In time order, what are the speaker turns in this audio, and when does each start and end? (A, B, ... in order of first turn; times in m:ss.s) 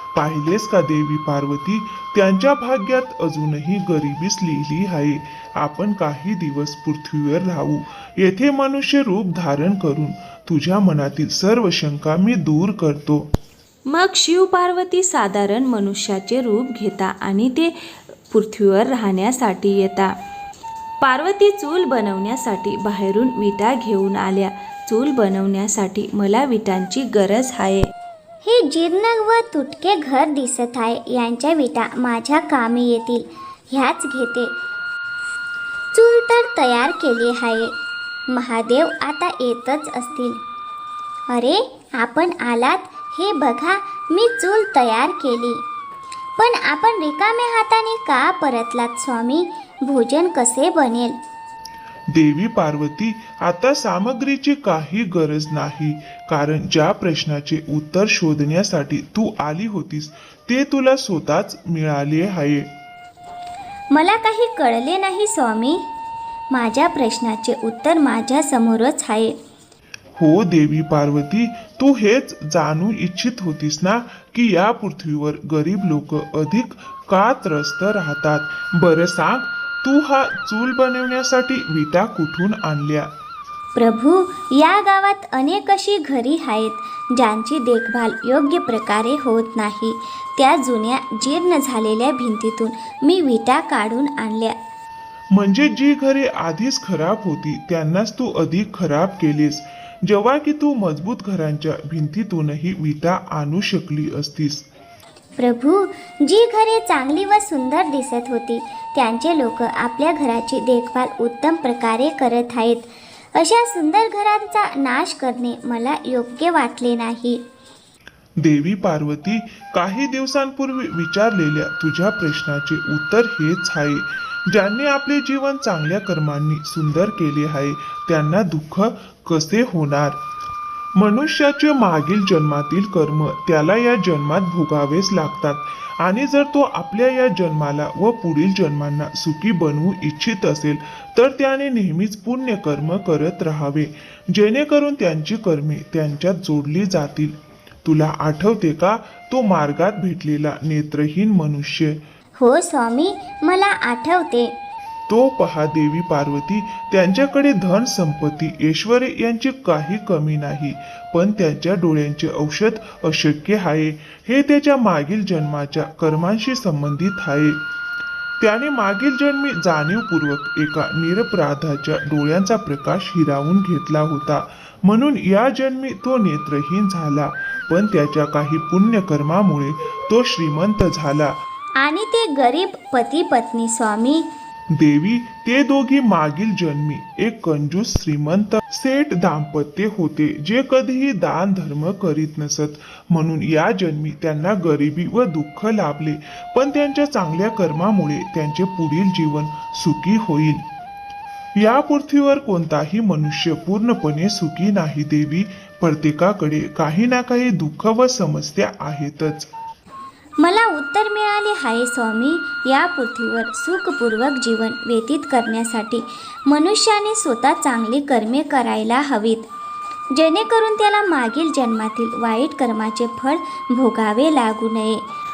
0:00.1-0:13.2 A
0:13.8-0:17.7 B
0:18.3-0:20.1 B
0:21.0-0:27.9 B
0:28.4-0:34.5 C
0:35.9-0:37.7 C
0:38.3-0:40.4 C
0:41.3-0:45.6 C
0:46.4-0:51.2 C
0:52.1-1:02.7 A
1:03.9-1:05.9 C
1:06.5-1:09.4 C
1:10.2-1:23.1 A
1:23.8-1:34.6 C
1:35.3-1:44.6 A
1:45.4-1:57.4 C
1:58.4-2:10.2 A
2:11.0-2:32.0 A
2:32.4-2:34.5 C
2:35.1-2:47.6 A
2:48.4-3:01.3 A
3:01.8-3:04.3 C
3:04.7-3:20.6 A
3:21.6-3:29.5 A
3:30.4-3:39.4 C
3:40.1-3:45.0 C